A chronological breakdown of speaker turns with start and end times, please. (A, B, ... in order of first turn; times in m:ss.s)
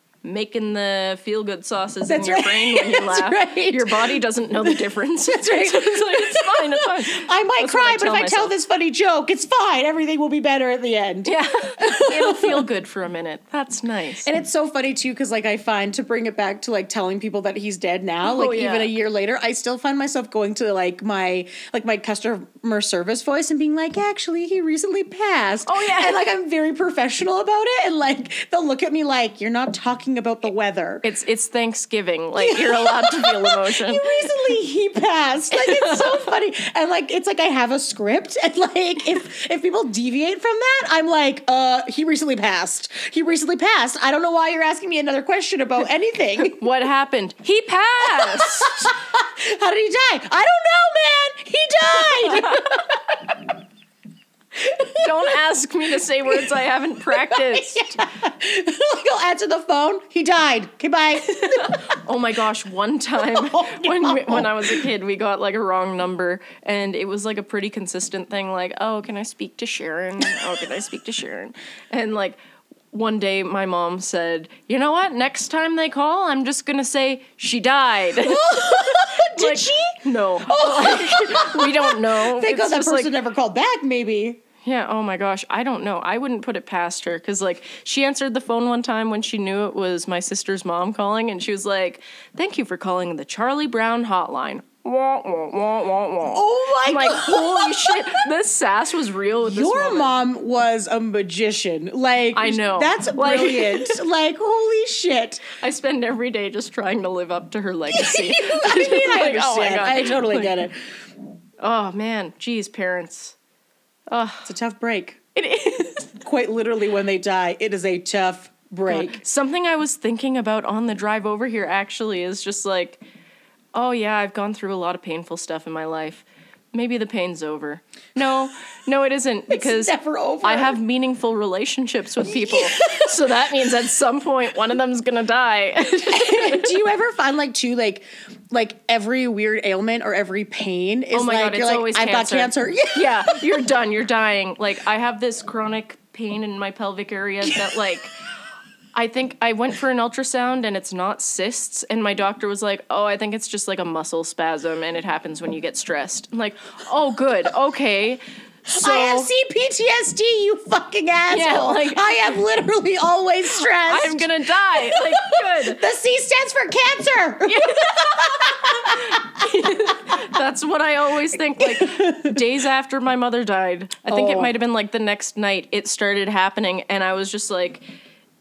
0:00.2-0:08.5 A
0:02.1-0:12.7 B
0:11.2-0:14.3 A
0:14.2-0:31.0 B
0:18.2-0:18.9 A
0:25.6-0:26.3 A
0:31.0-0:34.1 A
0:32.4-0:46.6 B
0:35.5-0:36.2 A
0:46.4-0:48.9 A
0:48.0-0:53.6 B
0:52.0-0:52.8 A
0:54.5-0:55.4 B
0:55.0-0:57.8 A
0:57.0-1:02.0 B
1:01.2-1:12.4 A
1:03.2-1:04.8 B
1:12.9-1:23.1 A
1:18.2-1:24.4 B
1:24.6-1:40.1 A
1:36.3-1:38.2 B
1:39.4-1:45.5 B
1:42.3-1:44.0 A
1:45.6-1:50.5 A
1:47.9-1:50.8 B
1:51.6-1:53.4 A
1:54.1-1:54.5 A
1:54.4-1:55.2 B
1:55.3-1:56.2 A
1:56.2-1:59.2 B
1:58.8-2:03.0 A
2:03.7-2:16.8 A
2:09.5-2:10.8 B
2:12.2-2:13.5 B
2:16.1-2:23.7 B
2:21.1-2:28.1 A
2:27.4-2:27.7 B
2:28.9-2:39.3 A
2:38.7-2:49.7 B
2:41.3-2:42.1 A
2:43.8-2:45.8 A
2:47.4-2:57.8 A
2:51.6-2:52.4 B
2:54.1-2:54.5 B